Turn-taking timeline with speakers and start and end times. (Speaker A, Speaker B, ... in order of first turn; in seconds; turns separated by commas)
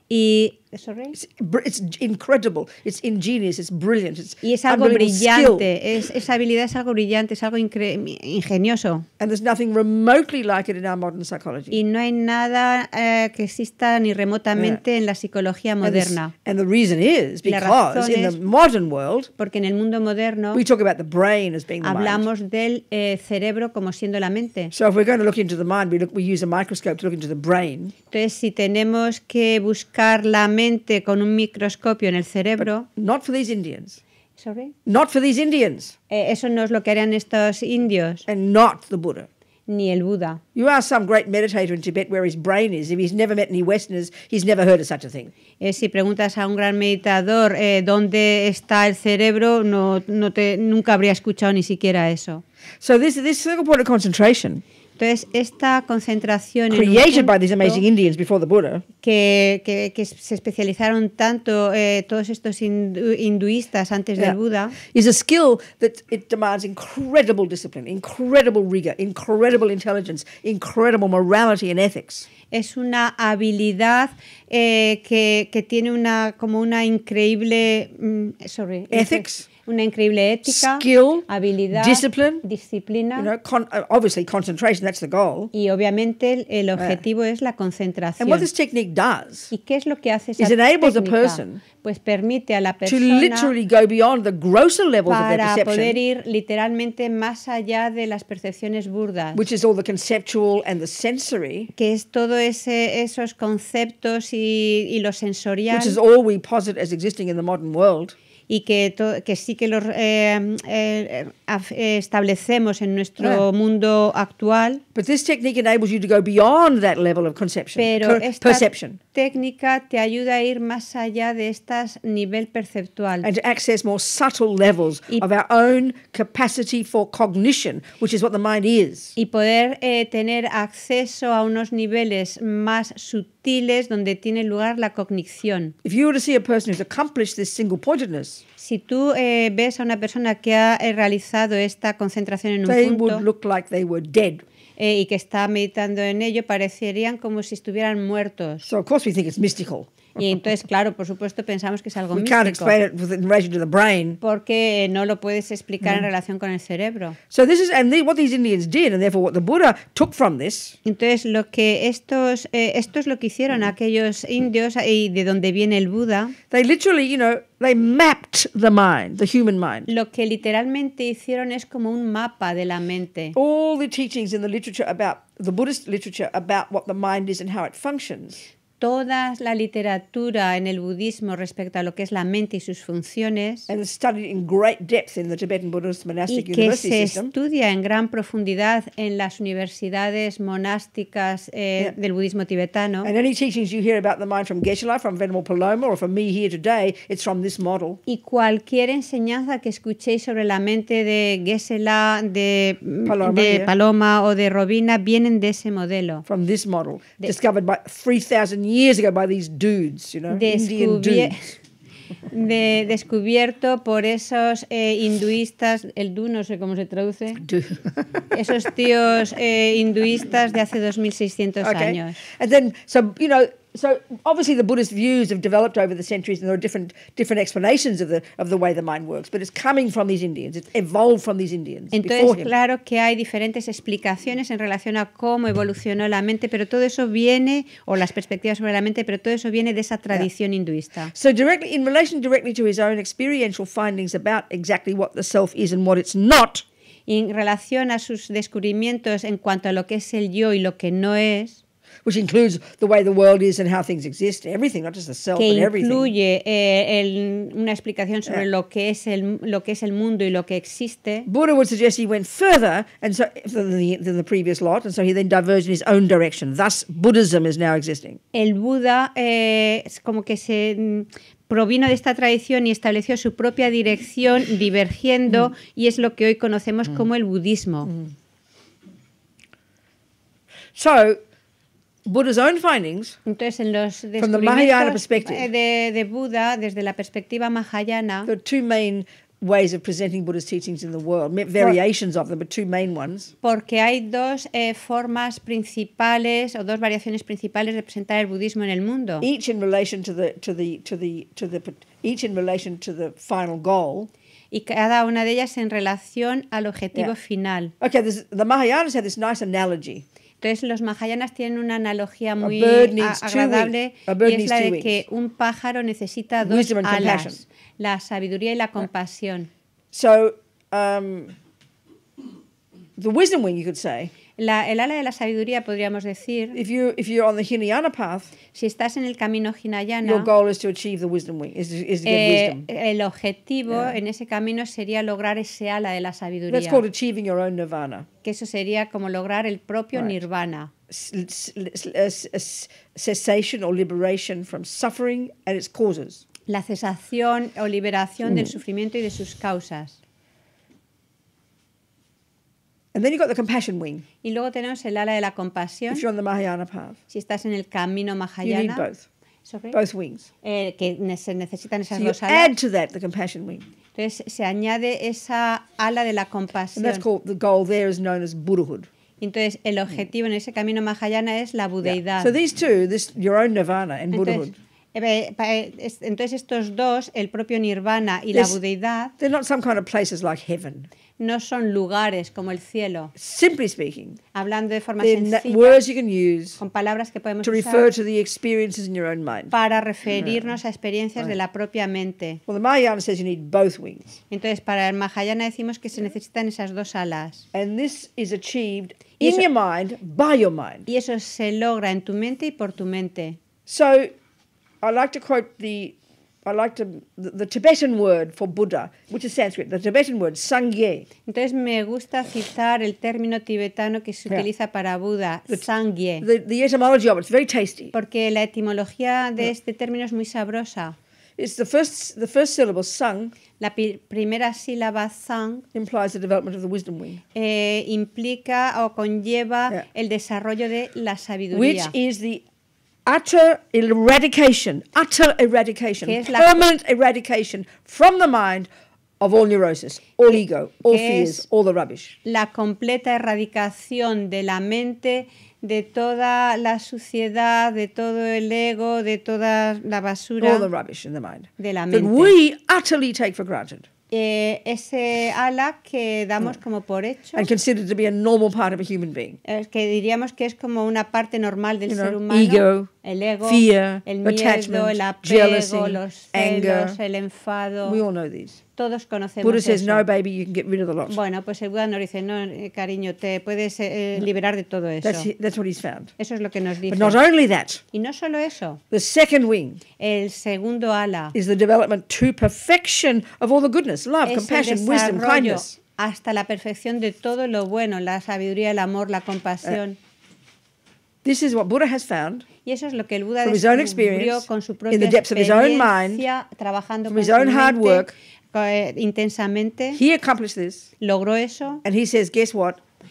Speaker A: 0.1-1.1, Speaker B: 1.1-5.7, Speaker A: 4.4-9.1, Speaker B: 9.2-11.8, Speaker A: 11.7-16.3, Speaker B: 15.8-19.3, Speaker A: 17.4-18.4, Speaker A: 19.4-20.6, Speaker B: 20.5-22.2, Speaker A: 21.8-24.7, Speaker B: 24.7-27.9, Speaker A: 28.1-32.9, Speaker B: 32.6-34.0, Speaker A: 34.4-34.7, Speaker B: 34.9-36.0, Speaker A: 36.1-38.2, Speaker B: 38.3-39.3, Speaker A: 39.7-40.4, Speaker B: 40.5-45.3, Speaker A: 45.6-52.4, Speaker B: 52.8-54.6, Speaker A: 55.0-57.8, Speaker B: 56.7-58.8, Speaker A: 59.0-64.8, Speaker B: 64.2-72.3, Speaker A: 72.5-83.3, Speaker B: 78.9-79.5, Speaker B: 80.5-82.4, Speaker B: 83.2-85.5, Speaker A: 85.5-88.5, Speaker B: 86.8-87.0, Speaker B: 88.2-89.5, Speaker A: 89.5-93.5, Speaker B: 90.4-91.6, Speaker B: 92.9-96.0, Speaker A: 95.1-99.4, Speaker B: 99.3-101.7, Speaker A: 101.8-106.0, Speaker B: 105.7-108.2, Speaker A: 108.5-114.8, Speaker B: 115.0-119.0, Speaker A: 117.8-123.3, Speaker B: 123.2-129.2, Speaker A: 129.2-135.8, Speaker B: 135.8-138.4, Speaker A: 138.6-143.2, Speaker B: 142.7-144.4, Speaker A: 144.8-148.7, Speaker B: 148.6-150.3, Speaker A: 150.2-152.8, Speaker B: 152.1-154.2, Speaker A: 154.2-157.2, Speaker B: 157.3-160.8, Speaker A: 160.8-166.4, Speaker B: 166.5-169.9, Speaker A: 169.9-173.3, Speaker B: 173.3-178.4, Speaker A: 178.8-183.7, Speaker B: 183.7-187.3, Speaker A: 186.3-193.1, Speaker B: 193.0-198.0, Speaker A: 198.1-206.2, Speaker B: 203.1-203.7, Speaker B: 206.3-211.4, Speaker A: 210.3-211.6, Speaker A: 212.3-217.4, Speaker B: 217.4-218.3, Speaker A: 218.3-222.2, Speaker B: 221.6-232.5, Speaker A: 231.9-241.1, Speaker B: 241.1-246.6, Speaker A: 247.1-251.6, Speaker B: 252.1-256.1, Speaker A: 255.3-261.3, Speaker B: 261.3-268.2, Speaker A: 268.3-277.9, Speaker B: 277.9-278.1, Speaker B: 280.8-281.2, Speaker B: 282.1-283.2, Speaker A: 283.3-288.3, Speaker B: 284.2-285.5, Speaker B: 288.2-293.3, Speaker A: 293.4-299.3, Speaker B: 299.2-304.1, Speaker A: 304.5-307.7, Speaker B: 307.8-310.0, Speaker A: 310.4-319.5, Speaker B: 312.4-315.0, Speaker B: 316.4-317.4, Speaker B: 319.9-321.4, Speaker B: 323.0-324.1, Speaker A: 324.4-326.6, Speaker B: 326.5-328.3, Speaker A: 328.5-330.3, Speaker B: 330.0-332.7, Speaker A: 332.1-336.8, Speaker B: 333.7-334.0, Speaker B: 336.5-338.1, Speaker A: 338.2-340.7, Speaker B: 340.9-346.2, Speaker A: 346.5-350.0, Speaker B: 352.9-354.0, Speaker A: 354.2-356.0, Speaker B: 355.9-357.0, Speaker A: 357.1-358.9, Speaker B: 358.4-359.1, Speaker A: 359.4-359.8, Speaker B: 359.7-360.3, Speaker A: 360.4-362.5, Speaker B: 361.9-363.6, Speaker A: 363.9-367.0, Speaker B: 366.8-368.9, Speaker A: 369.2-372.4, Speaker B: 371.8-374.6, Speaker A: 374.1-379.1, Speaker B: 379.2-380.9, Speaker A: 381.2-383.1, Speaker B: 383.2-384.2, Speaker A: 384.3-385.8, Speaker B: 385.0-386.6, Speaker A: 386.6-387.9, Speaker B: 387.4-389.5, Speaker A: 389.5-392.4, Speaker B: 390.2-390.5, Speaker B: 392.5-394.2, Speaker A: 394.3-397.4, Speaker B: 397.5-400.9, Speaker A: 399.2-399.5, Speaker A: 400.9-403.4, Speaker B: 403.7-404.1, Speaker B: 404.8-411.1, Speaker A: 411.3-416.3, Speaker B: 416.2-417.9, Speaker A: 417.9-421.0, Speaker B: 421.4-423.3, Speaker A: 423.6-425.6, Speaker B: 425.7-427.2, Speaker A: 427.4-431.9, Speaker B: 431.5-432.4, Speaker B: 433.1-438.7, Speaker A: 436.0-436.6, Speaker B: 439.2-442.2, Speaker A: 440.9-441.5, Speaker A: 442.2-450.7, Speaker B: 450.4-453.9, Speaker A: 451.6-452.3, Speaker A: 454.1-457.5, Speaker B: 457.3-459.4, Speaker A: 459.4-468.0, Speaker B: 461.9-462.9, Speaker B: 463.4-467.0, Speaker B: 467.9-468.6, Speaker A: 468.8-470.1, Speaker B: 469.4-471.2, Speaker A: 471.1-475.3, Speaker B: 475.0-476.1, Speaker A: 476.2-477.2, Speaker B: 476.9-477.8, Speaker A: 477.9-478.8, Speaker B: 478.9-479.8, Speaker A: 480.0-481.4, Speaker B: 481.3-485.8, Speaker A: 484.2-490.0, Speaker B: 491.2-492.4, Speaker A: 492.6-500.0, Speaker B: 493.4-496.2, Speaker B: 497.1-498.1, Speaker B: 499.9-500.9, Speaker A: 501.0-501.8, Speaker B: 501.8-502.8